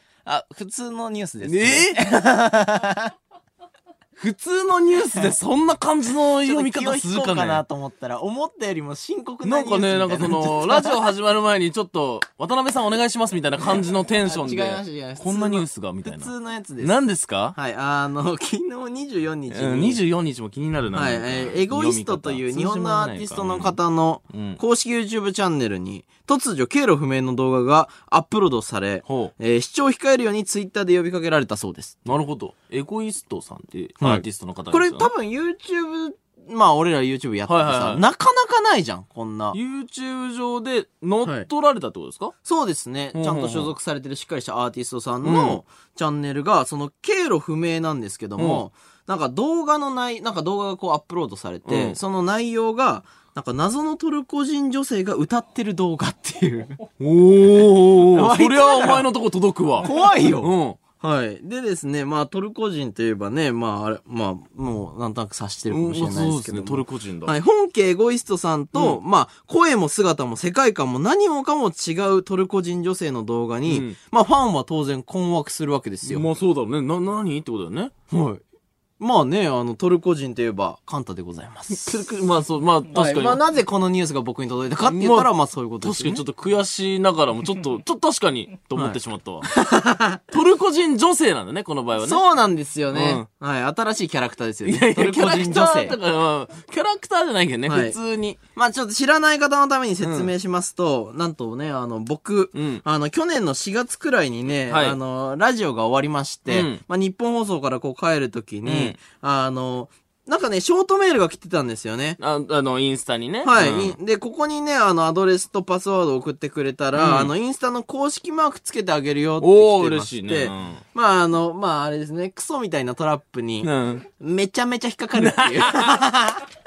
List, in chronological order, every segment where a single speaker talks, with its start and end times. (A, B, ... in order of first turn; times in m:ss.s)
0:00.2-0:03.1 A
0:01.4-0:02.0 B
0:04.2-0:07.6 B
0:06.4-0:11.1 A
0:09.4-0:17.6 B
0:14.3-0:16.9 A
0:17.5-0:20.0 A
0:19.5-0:23.8 B
0:21.0-0:32.0 A
0:24.3-0:24.6 B
0:29.0-0:29.3 B
0:32.0-0:35.1 B
0:34.0-0:39.6 A
0:37.5-0:38.0 B
0:39.5-0:42.3 B
0:42.4-0:56.8 A
0:43.1-0:43.7 B
0:45.2-0:45.6 B
0:48.4-0:48.6 B
0:51.7-0:52.0 B
0:57.0-0:59.9 B
0:57.9-0:59.1 A
0:59.8-1:16.3 A
1:00.4-1:00.8 B
1:05.7-1:07.3 B
1:13.7-1:14.0 B
1:16.0-1:17.9 B
1:18.1-1:18.4 A
1:19.0-1:21.9 A
1:21.7-1:23.4 B
1:22.9-1:26.2 A
1:24.9-1:25.3 B
1:25.8-1:29.5 B
1:28.8-1:30.2 A
1:30.3-1:32.2 B
1:32.0-1:36.0 A
1:32.9-1:33.3 B
1:34.6-1:38.4 B
1:37.7-1:38.0 A
1:38.5-1:52.2 A
1:40.0-1:40.3 B
1:42.5-1:42.8 B
1:44.7-1:45.0 B
1:46.5-1:46.8 B
1:48.6-1:49.0 B
1:52.2-1:54.0 B
1:53.4-2:06.4 A
1:57.0-1:57.3 B
1:59.4-2:00.8 B
2:03.6-2:04.1 B
2:05.2-2:06.0 B